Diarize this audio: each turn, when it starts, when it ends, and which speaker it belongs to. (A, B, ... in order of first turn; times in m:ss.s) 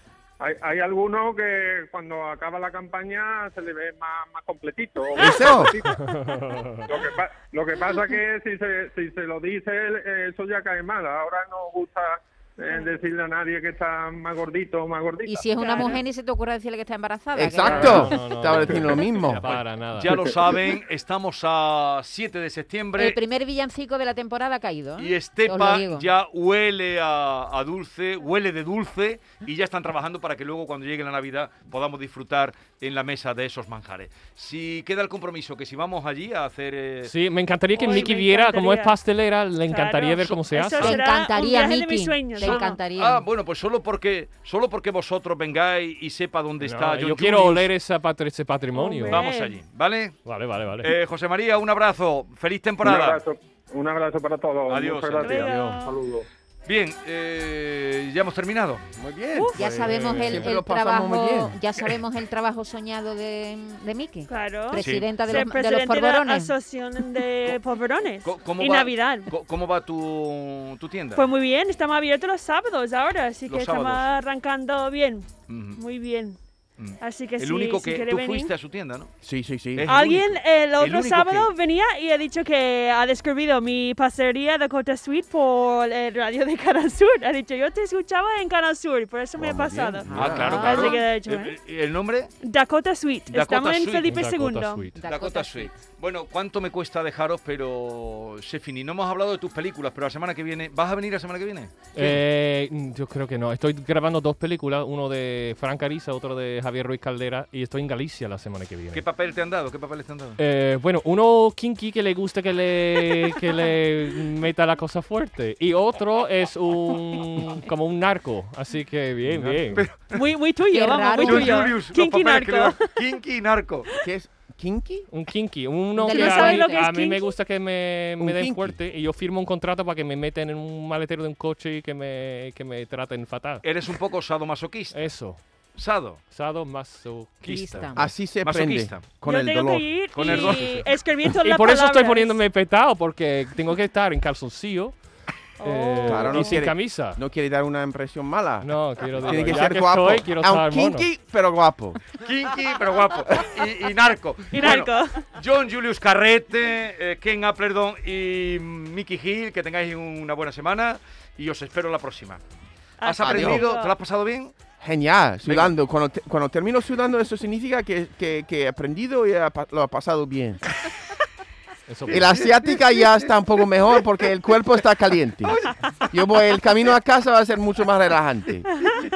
0:00.4-0:15.4 A
0:05.2-0:05.7 B
0:06.0-0:06.8 C
0:15.2-0:18.5 D
0:15.6-0:16.0 E
0:17.3-0:20.6 B
0:17.7-0:20.2 C
0:19.4-0:23.2 F
0:23.0-0:26.1 D
0:25.0-0:37.1 F
0:37.0-0:40.9 C
0:37.8-0:39.0 E
0:39.7-0:42.8 E
0:40.8-0:43.2 D
0:42.4-0:47.7 F
0:46.6-0:49.2 C
0:48.7-0:49.6 E
0:49.1-0:50.2 F
0:50.2-0:50.9 C
0:50.8-0:53.2 F
0:52.8-0:56.2 A
0:54.7-0:55.5 F
0:55.2-0:56.0 E
0:55.4-0:55.8 B
0:56.6-0:58.8 F
0:59.0-1:01.6 B
0:59.3-0:59.6 E
0:59.6-1:06.5 D
0:59.9-1:00.5 C
1:04.3-1:09.3 E
1:04.7-1:05.1 F
1:08.2-1:11.2 F
1:11.1-1:16.4 E
1:13.5-1:14.1 F
1:15.5-1:15.8 F
1:16.8-1:19.1 F
1:17.0-1:18.5 E
1:19.2-1:19.9 B
1:19.7-1:21.5 F
1:19.9-1:31.6 E
1:29.4-1:30.9 B
1:30.1-1:32.3 F
1:30.2-1:31.0 D
1:32.4-1:34.9 E
1:33.3-1:34.1 F
1:34.1-1:35.0 C
1:35.0-1:35.8 D
1:35.0-1:42.2 F
1:41.9-1:49.0 C
1:48.9-1:50.4 F
1:50.4-1:59.9 C
1:59.2-2:00.2 F
2:00.1-2:03.0 E
2:00.7-2:01.8 D
2:01.2-2:03.9 F
2:04.0-2:05.1 B
2:05.1-2:13.6 C
2:06.0-2:06.9 D
2:06.1-2:07.3 E
2:08.2-2:08.8 B
2:13.6-2:15.1 F
2:14.9-2:15.4 C
2:15.7-2:16.2 F
2:16.3-2:17.9 C
2:17.4-2:17.7 F
2:17.4-2:18.1 D
2:18.0-2:20.5 B
2:18.4-2:19.0 F
2:19.2-2:22.3 E
2:20.1-2:20.9 F
2:21.2-2:25.0 C
2:25.6-2:26.6 E
2:25.6-2:27.2 C
2:26.0-2:32.0 B
2:28.6-2:31.1 C
2:29.2-2:29.5 F
2:32.1-2:42.4 F
2:34.5-2:35.3 E
2:43.0-2:43.9 E
2:43.0-2:44.5 F
2:43.2-2:43.6 B
2:44.8-2:50.6 B
2:45.4-2:45.7 F
2:51.9-2:52.4 C
2:52.1-2:58.7 B
2:52.1-2:52.4 F
2:55.4-2:56.1 F